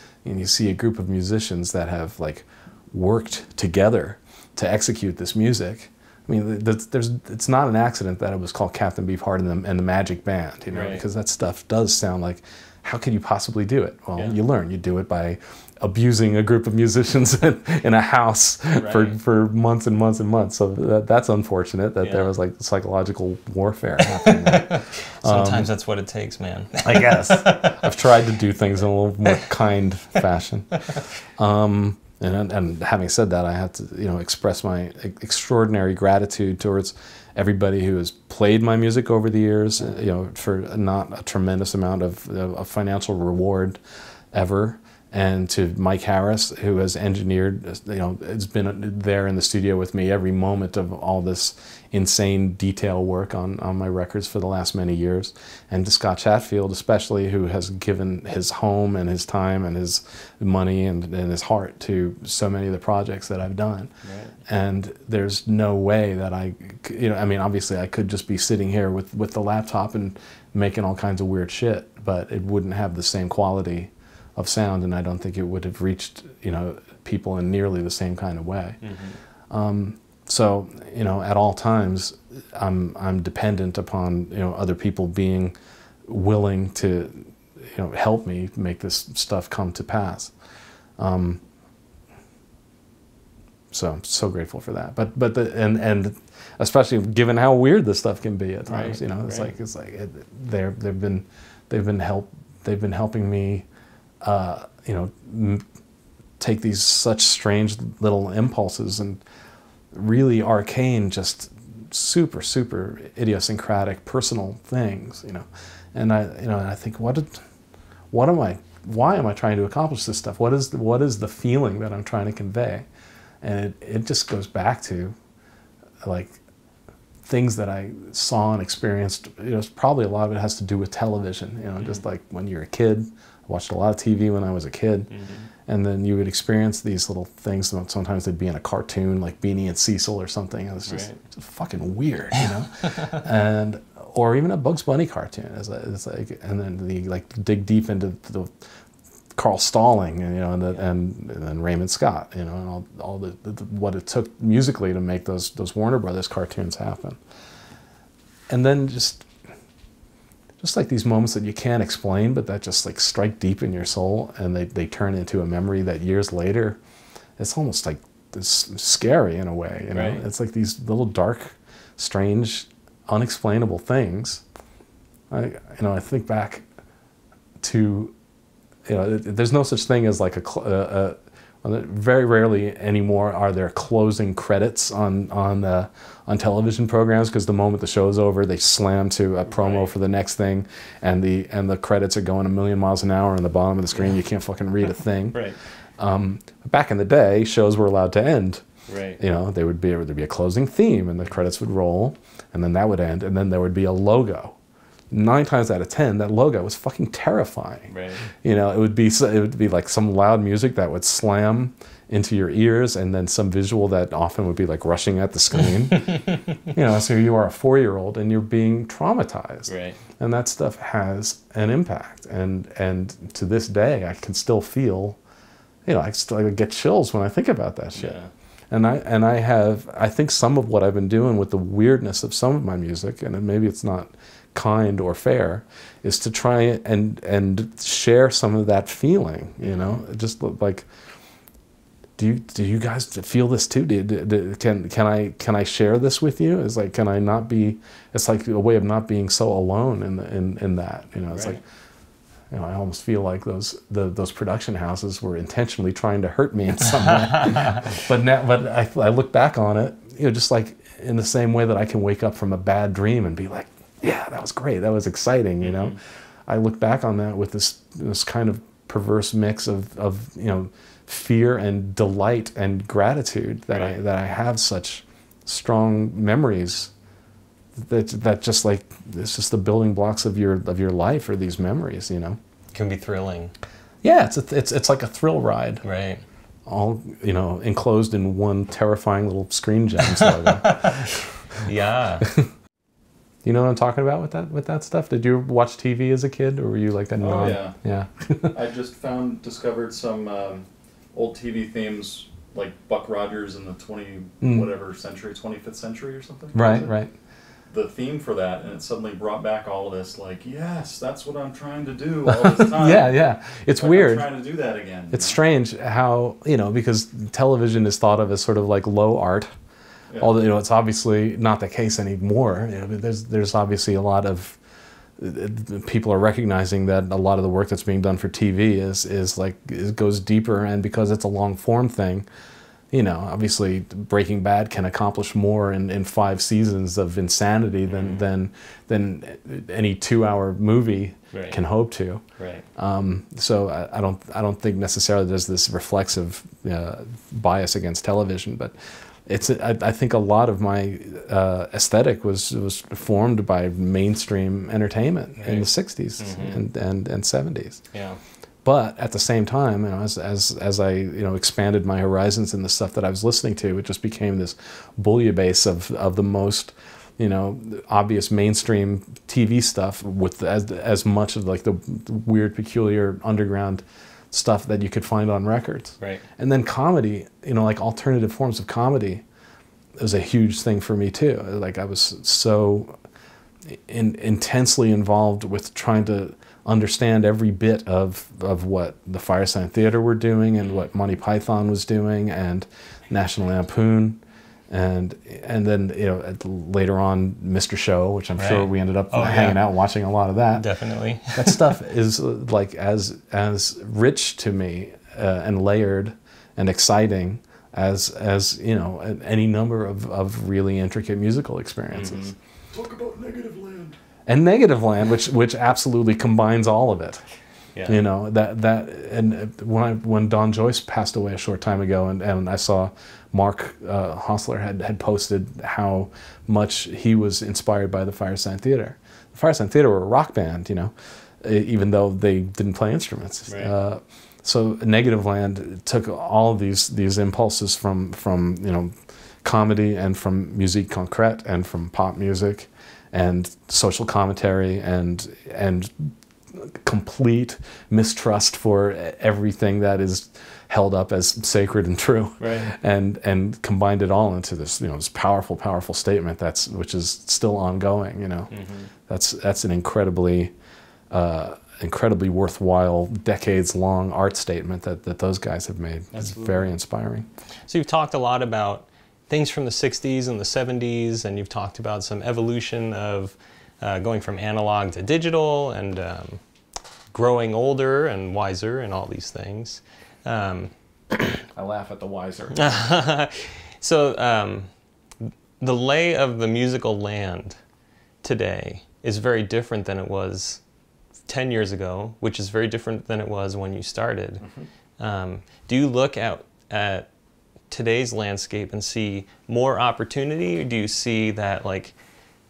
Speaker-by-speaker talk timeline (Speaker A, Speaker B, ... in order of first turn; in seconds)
Speaker A: 0.2-25.7, 26.8-43.8, 44.3-63.9, 64.5-78.8, 79.5-85.5, 86.1-90.3, 91.0-91.4, 93.7-103.7, 104.2-105.6, 106.4-109.2, 109.9-117.4, 118.1-122.9, 123.4-125.2, 126.0-126.4, 127.2-135.1, 135.7-148.6, 149.3-157.2, 158.5-159.3, 160.6-166.8, 167.4-174.4, 175.3-176.7, 177.6-178.2, 178.9-195.4, 196.0-198.6, 199.2-204.6, 205.1-225.2, 225.9-228.2, 228.7-240.9, 242.2-251.6, 252.5-276.9, 277.8-282.4, 284.0-285.8, 286.7-291.6, 292.2-292.5, 293.4-298.5, 304.4-304.7, 306.5-307.1, 312.3-314.3, 315.1-319.5, 320.2-324.6, 325.2-332.3, 332.9-342.2, 342.8-348.7, 349.3-357.8, 358.6-379.2, 380.0-382.9, 383.7-400.7, 401.3-412.3, 414.3-417.2, 417.9-438.9, 439.4-458.5, 459.1-460.5, 461.1-467.3, 481.6-482.7
Speaker B: 10.7-11.1, 18.8-19.2, 22.0-22.3, 24.1-28.1, 64.0-64.3, 78.8-79.2, 98.7-99.5, 135.1-135.5, 140.9-141.2, 169.9-170.2, 189.5-189.9, 198.9-199.2, 207.9-208.2, 219.7-220.0, 228.0-228.3, 251.3-251.6, 257.1-257.8, 265.6-266.0, 282.7-283.5, 285.8-286.2, 290.1-292.3, 337.9-338.2, 341.3-341.6, 342.4-342.6, 355.4-356.6, 357.9-358.2, 398.4-399.6, 400.6-401.6, 411.9-412.4, 417.8-418.0, 433.5-433.7, 452.4-452.7, 458.5-458.9, 466.1-466.7, 467.7-476.4, 477.1-480.7, 482.5-484.7, 485.6-487.6, 488.2-490.6, 491.3-494.4, 495.0-497.1, 497.7-501.9
Speaker C: 297.2-297.8, 298.5-306.9, 307.7-315.4, 412.7-413.9